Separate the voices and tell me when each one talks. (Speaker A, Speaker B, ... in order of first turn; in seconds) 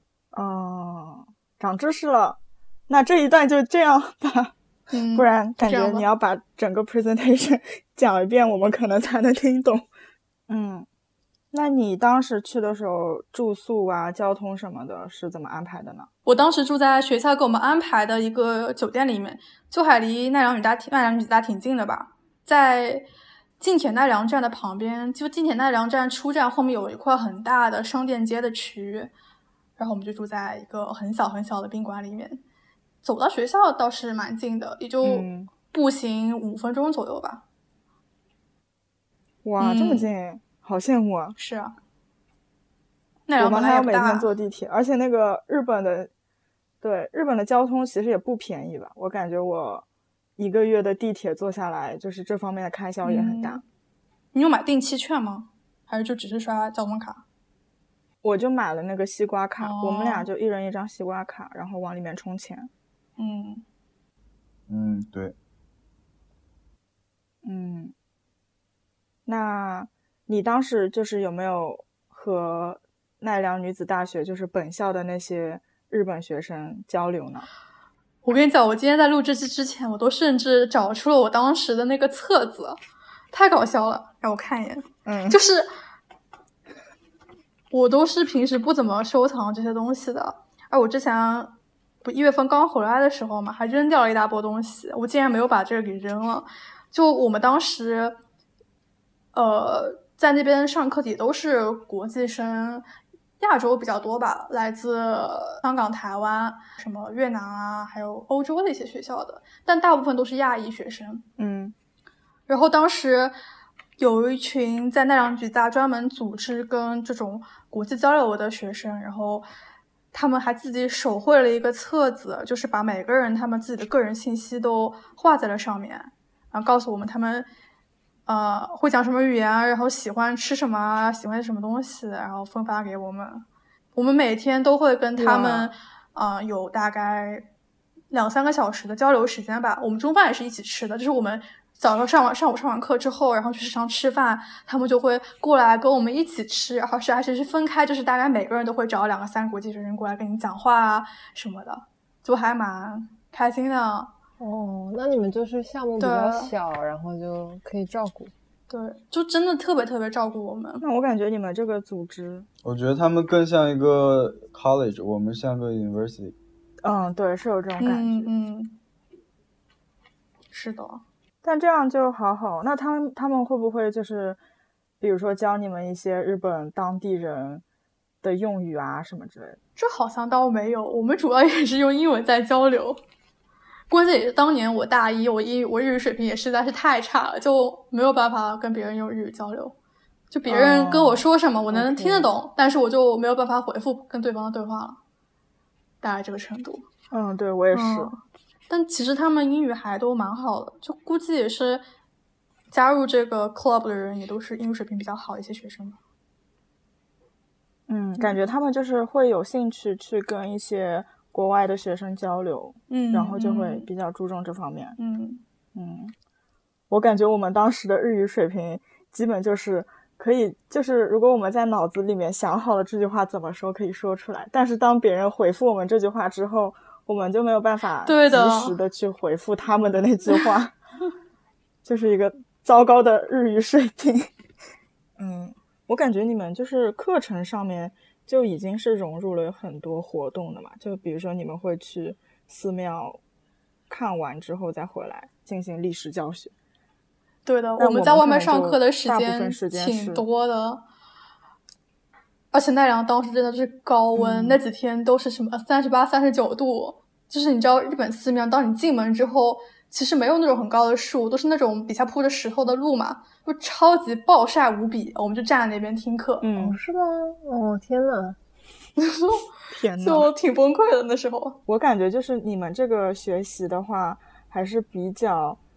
Speaker A: 0.3-4.5, 5.1-9.9, 10.5-10.9, 11.5-16.1, 35.0-35.5, 39.5-41.4, 43.4-46.1, 46.8-49.9, 50.4-53.6, 58.2-62.7, 67.4-67.9, 69.3-77.5, 85.1-85.4, 111.4-111.7, 135.2-135.7, 160.8-162.5, 166.8-168.3, 171.4-174.4, 175.0-177.6, 178.2-179.6, 190.5-192.3, 197.1-198.1, 207.9-215.0, 215.7-216.1, 216.9-230.8, 231.8-234.3, 235.2-243.2, 243.9-246.5, 247.8-250.2, 254.2-254.6, 266.4-266.8, 269.7-270.3, 271.7-275.6
Speaker B: 4.9-6.1, 16.3-23.1, 23.6-29.1, 29.8-32.4, 33.0-37.4, 39.6-40.1, 41.4-41.8, 43.3-44.3, 53.0-53.6, 54.3-57.2, 59.6-60.3, 63.2-63.6, 78.2-82.8, 83.3-85.7, 87.7-98.2, 99.3-102.9, 103.4-111.3, 112.5-113.4, 114.0-119.5, 120.1-127.5, 128.3-137.5, 138.1-154.1, 156.0-156.5, 158.7-160.8, 167.8-168.8, 170.5-171.0, 179.8-183.0, 183.9-189.8, 190.3-195.0, 196.0-196.9, 197.7-201.8, 202.7-206.0, 212.9-213.9, 215.0-215.4, 228.1-228.8, 247.5-250.8, 252.5-266.5, 269.0-269.4, 270.0-271.6
Speaker C: 64.7-65.3, 162.6-166.3
Speaker D: 154.4-158.3, 266.6-268.4